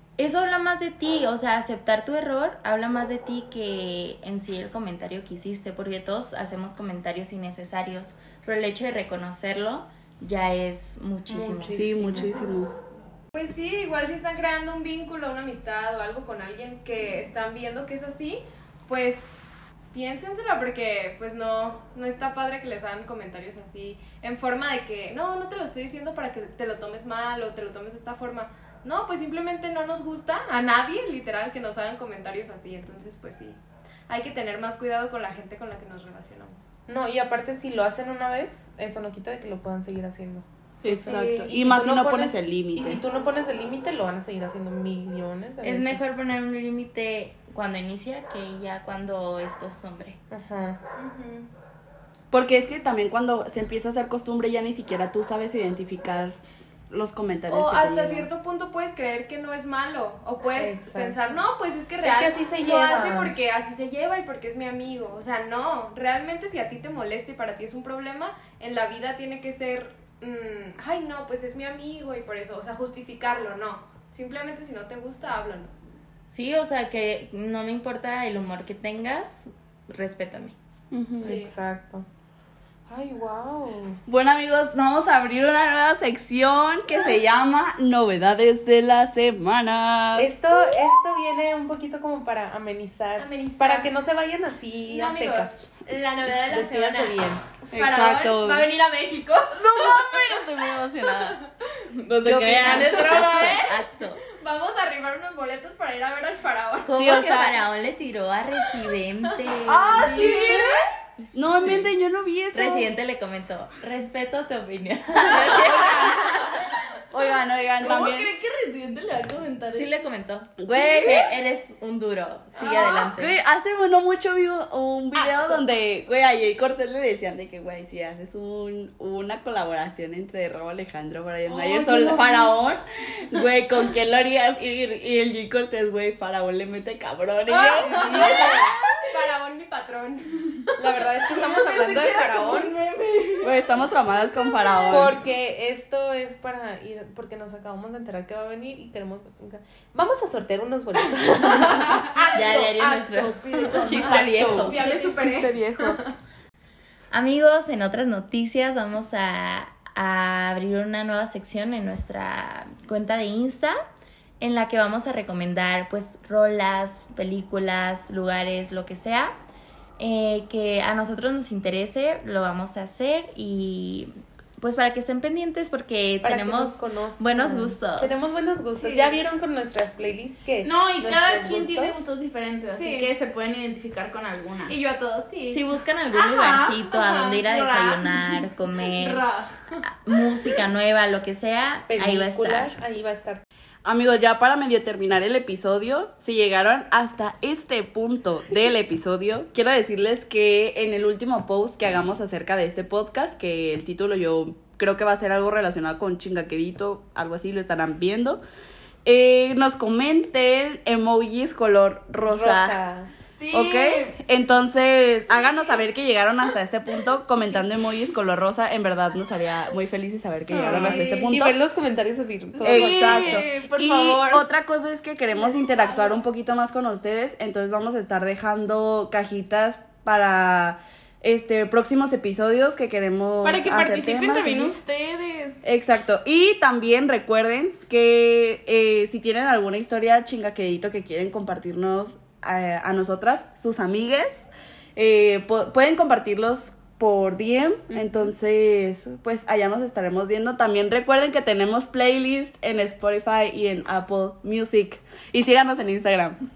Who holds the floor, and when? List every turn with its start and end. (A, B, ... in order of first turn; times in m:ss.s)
0:00.2-0:12.3 A
0:11.3-0:12.4 B
0:11.7-0:12.7 C
0:13.3-0:36.7 D
0:36.9-0:46.0 B
0:40.8-0:43.0 C
0:40.9-0:41.5 D
0:45.6-0:50.2 A
0:50.3-0:50.8 B
0:51.0-0:51.5 D
0:52.3-0:56.4 C
0:56.9-0:58.3 C
0:57.5-1:15.8 D
1:00.6-1:01.2 B
1:02.0-1:03.3 B
1:16.3-1:20.6 A
1:20.9-1:21.3 E
1:21.2-1:22.1 B
1:21.2-1:21.5 D
1:22.9-1:24.0 B
1:24.1-1:30.3 C
1:30.2-1:35.6 B
1:33.2-1:33.9 D
1:34.9-1:41.5 D
1:36.5-1:37.4 B
1:37.7-1:38.7 C
1:39.6-1:41.4 E
1:39.7-1:41.2 C
1:42.1-1:43.8 E
1:42.1-1:43.6 C
1:42.6-1:43.2 D
1:42.6-1:44.2 A
1:44.4-1:47.2 D
1:46.8-1:50.3 A
1:47.0-1:47.6 C
1:49.7-1:50.9 E
1:49.9-1:50.8 C
1:50.0-1:50.8 D
1:51.3-1:52.9 C
1:51.6-1:51.9 A
1:52.5-1:56.6 A
1:55.2-1:58.3 C
1:57.8-2:00.0 E
1:59.7-2:03.4 A
2:00.6-2:01.3 C
2:02.6-2:03.1 D
2:03.1-2:19.0 C
2:11.5-2:12.6 E
2:17.5-2:20.8 D
2:17.8-2:18.7 B
2:20.8-2:22.7 B
2:21.4-2:23.8 E
2:23.4-2:25.2 C
2:24.4-2:25.1 E
2:24.9-2:32.1 B
2:31.4-2:35.4 E
2:31.8-2:32.1 D
2:32.3-2:34.8 A
2:33.8-2:36.1 D
2:34.1-2:36.0 B
2:37.1-2:43.8 A
2:44.4-2:49.4 A
2:50.0-2:58.2 A
2:56.2-3:02.0 B
2:58.8-2:59.1 D
3:00.6-3:04.7 E
3:02.7-3:03.1 D
3:04.7-3:05.6 D
3:05.5-3:09.2 A
3:06.1-3:09.6 E
3:07.1-3:07.4 D
3:09.8-3:12.8 A
3:11.9-3:13.4 B
3:13.8-3:28.4 C
3:29.1-3:32.8 C
3:32.2-3:33.1 B
3:33.4-3:34.2 E
3:33.5-3:41.5 C
3:40.5-3:41.1 E
3:40.6-3:43.5 B
3:40.6-3:41.3 D
3:42.6-3:44.4 E
3:42.6-3:54.8 C
3:45.4-3:46.2 D
3:53.4-3:55.6 E
3:55.6-4:16.4 C